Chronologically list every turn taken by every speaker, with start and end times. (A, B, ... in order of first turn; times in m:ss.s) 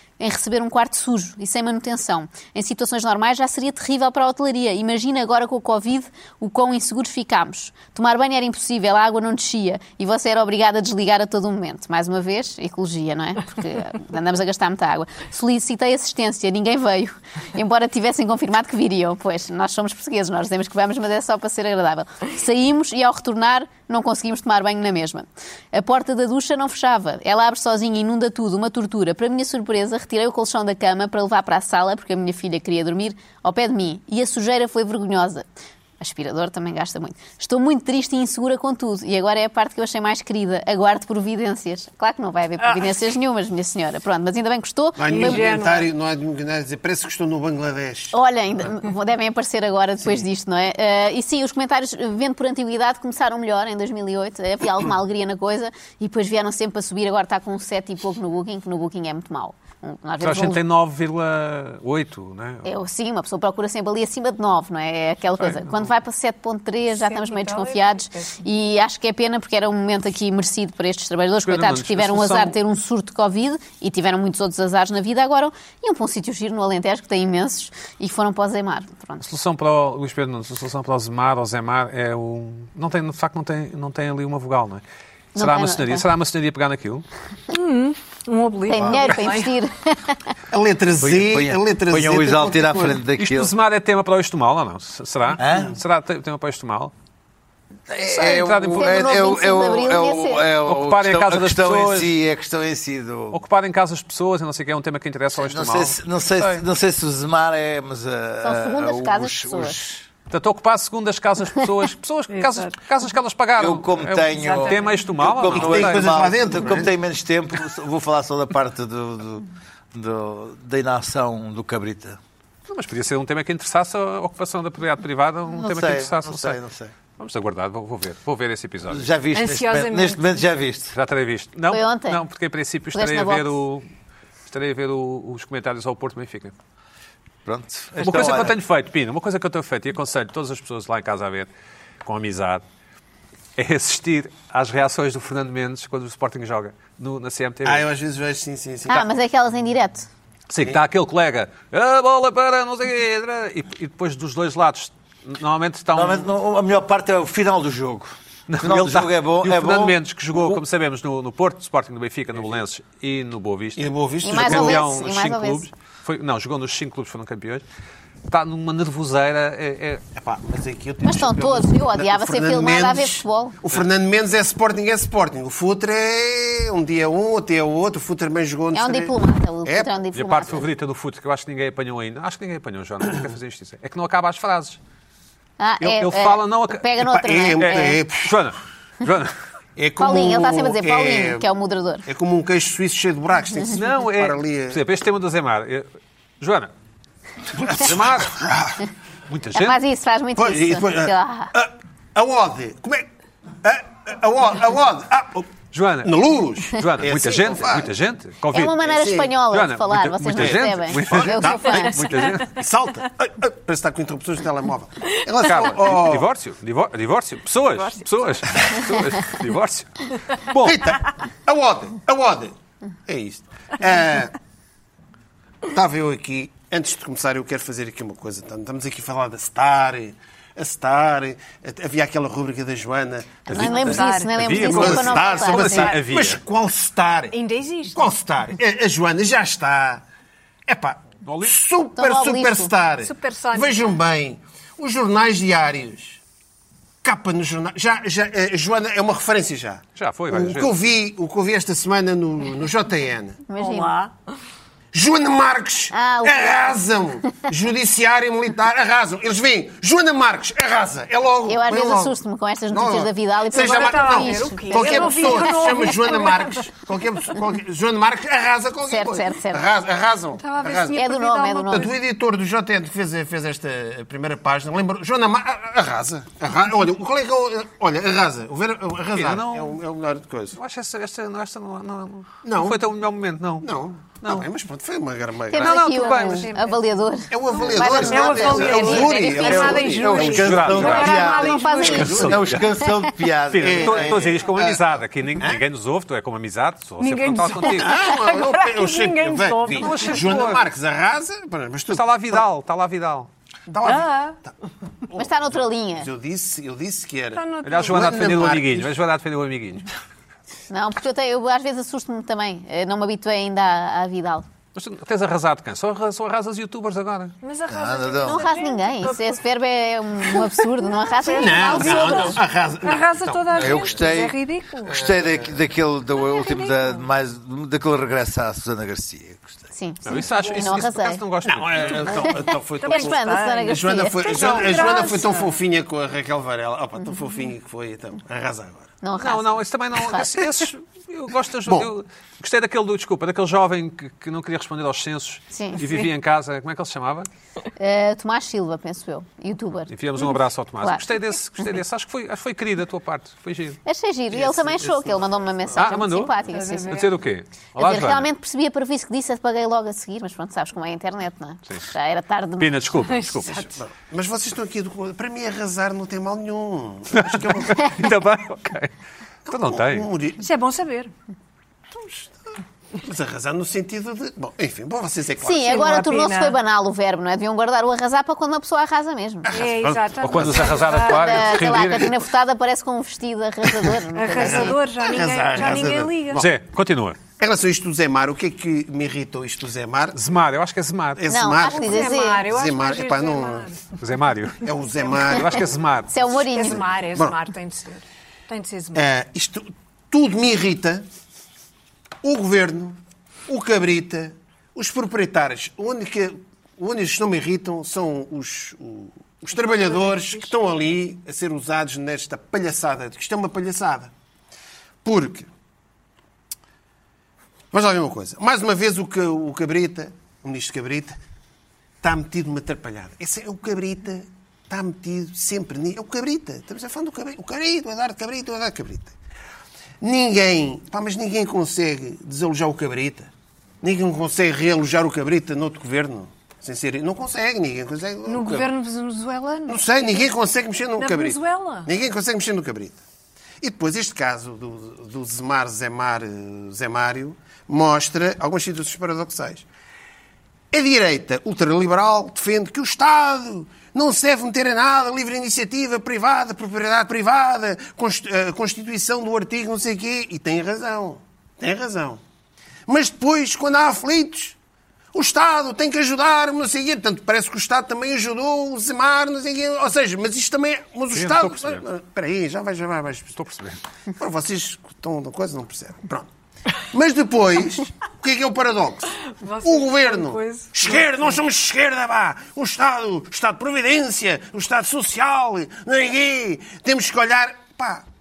0:00.2-0:35.4 A
0:36.0-0:45.5 A
0:45.0-0:48.1 B
0:45.1-0:45.9 C
0:48.1-1:00.6 A
1:00.2-1:02.7 D
1:02.6-1:19.2 A
1:05.4-1:05.9 D
1:06.9-1:08.4 C
1:11.4-1:12.5 D
1:19.2-1:24.8 D
1:25.3-1:26.0 A
1:25.4-1:27.0 D
1:27.5-1:29.5 C
1:28.7-1:30.2 A
1:30.5-1:33.0 B
1:31.0-1:33.5 E
1:33.2-1:36.9 D
1:35.4-1:35.7 E
1:37.9-1:43.4 E
1:38.2-1:39.0 D
1:38.8-1:40.5 A
1:40.6-1:42.2 D
1:43.3-1:46.6 D
1:45.4-1:50.0 E
1:48.4-1:49.8 A
1:50.3-1:56.1 D
1:52.3-1:52.7 C
1:53.6-2:02.2 E
1:54.3-1:55.0 C
1:55.4-1:56.9 B
2:02.7-2:06.6 D
2:05.5-2:06.9 E
2:07.2-2:09.1 D
2:08.9-2:10.9 E
2:09.3-2:10.3 C
2:10.9-2:13.8 D
2:11.7-2:12.2 A
2:12.9-2:13.5 A
2:14.5-2:16.5 D
2:17.4-2:18.6 E
2:18.0-2:21.5 D
2:22.0-2:22.6 D
2:23.6-2:27.8 D
2:27.6-2:29.1 B
2:28.9-2:30.1 A
2:30.5-2:36.3 D
2:35.9-2:40.6 E
2:38.5-2:47.6 D
2:43.8-2:45.0 B
2:44.2-2:45.7 A
2:48.3-2:50.0 D
2:50.1-2:59.1 B
2:51.0-2:53.6 A
2:58.7-3:00.7 A
2:59.6-2:59.9 B
3:00.1-3:04.8 D
3:05.6-3:08.0 A
3:05.8-3:06.8 D
3:07.0-3:08.3 B
3:07.6-3:09.3 D
3:09.8-3:11.5 B
3:10.0-3:12.0 A
3:12.1-3:14.8 B
3:13.7-3:15.9 D
3:16.4-3:16.7 D
3:17.6-3:18.8 B
3:17.7-3:18.4 D
3:19.3-3:19.8 D
3:19.5-3:21.5 A
3:20.4-3:23.0 B
3:23.6-3:27.9 B
3:25.7-3:26.1 D
3:26.7-3:28.7 D
3:28.5-3:32.0 A
3:28.8-3:29.3 B
3:29.5-3:32.6 D
3:31.0-3:36.3 B
3:35.4-3:40.9 D
3:37.7-3:38.1 C
3:40.6-3:42.5 B
3:43.0-3:44.3 B
3:45.7-3:53.8 B
3:53.5-3:56.4 D
3:53.5-3:55.9 A
3:53.6-3:54.9 C
3:54.5-3:57.4 B
3:57.3-3:58.2 C
3:57.9-4:00.0 B
4:00.7-4:06.2 B
4:01.2-4:01.5 D
4:02.0-4:02.7 A
4:03.0-4:04.0 C
4:07.0-4:13.4 B
4:10.0-4:10.7 D
4:13.5-4:13.9 A
4:13.6-4:14.1 C
4:14.9-4:22.2 B
4:15.9-4:16.8 A
4:21.4-4:25.6 A
4:22.7-4:31.0 B
4:23.5-4:26.7 C
4:28.8-4:29.7 A
4:30.4-4:31.9 C
4:30.9-4:31.9 A
4:31.7-4:40.6 B
4:39.1-4:39.7 D
4:40.6-4:43.7 D
4:42.4-4:42.8 B
4:43.6-4:45.8 B
4:44.2-4:44.4 D
4:45.5-4:50.0 A
4:45.5-4:46.5 D
4:45.8-4:46.9 C
4:47.3-4:51.2 B
4:47.5-4:52.4 C
4:49.4-4:54.3 E
4:50.3-4:51.2 D
4:51.2-4:53.0 A
4:52.0-4:52.4 D
4:52.0-4:52.4 B
4:53.5-4:58.0 D
4:53.6-4:55.6 B
4:57.0-5:00.4 C
4:57.7-5:02.4 B
4:59.7-5:00.6 D
5:01.9-5:03.3 D
5:03.7-5:04.5 B
5:03.8-5:04.4 C
5:05.1-5:08.9 B
5:05.2-5:06.1 A
5:07.3-5:08.3 C
5:07.6-5:09.9 D
5:10.7-5:14.4 A
5:14.7-5:17.3 D
5:17.4-5:19.4 C
5:17.7-5:18.5 E
5:18.2-5:22.4 A
5:20.2-5:25.0 C
5:21.3-5:23.8 B
5:23.6-5:29.6 E
5:26.3-5:27.0 C
5:29.7-5:31.2 A
5:30.0-5:32.3 D
5:31.4-5:38.9 B
5:32.1-5:34.7 A
5:32.8-5:35.6 C
5:39.0-5:40.4 A
5:39.2-5:47.3 D
5:45.5-5:45.8 A
5:47.8-5:51.0 A
5:49.9-5:53.8 D
5:53.8-5:57.1 A
5:54.4-5:55.0 B
5:55.8-5:56.3 D
5:56.5-5:57.1 C
5:56.9-5:58.3 D
5:57.8-6:02.8 A
6:02.6-6:03.6 D
6:03.1-6:03.7 C
6:03.7-6:07.8 B
6:07.1-6:08.9 D
6:09.5-6:10.4 B
6:09.5-6:10.1 D
6:10.4-6:11.1 C
6:11.9-6:12.3 B
6:13.0-6:15.8 B
6:15.4-6:19.5 A
6:15.6-6:16.6 C
6:19.5-6:20.7 B
6:19.5-6:21.6 C
6:19.8-6:22.1 D
6:21.0-6:24.8 A
6:24.1-6:26.4 C
6:24.3-6:26.4 B
6:26.3-6:27.2 D
6:27.4-6:30.2 B
6:30.1-6:31.2 D
6:31.2-6:33.7 B
6:31.3-6:32.4 A
6:31.6-6:33.8 C
6:34.0-6:36.1 D
6:34.6-6:35.6 B
6:36.1-6:36.8 A
6:36.5-6:39.0 C
6:38.9-6:41.0 B
6:42.2-6:54.1 B
6:49.5-6:50.5 C
6:55.0-6:55.5 B
6:57.7-7:01.2 B
7:02.0-7:09.1 B
7:10.0-7:13.3 B
7:13.8-7:18.7 B
7:18.3-7:20.3 C
7:19.7-7:23.0 B
7:21.0-7:21.9 C
7:23.6-7:29.6 B
7:30.7-7:42.2 B
7:42.9-7:44.6 B
7:45.1-7:53.4 B
7:51.1-7:51.8 D
7:53.4-7:53.8 D
7:54.2-7:56.3 B
7:56.9-8:08.0 B
7:59.3-8:01.4 C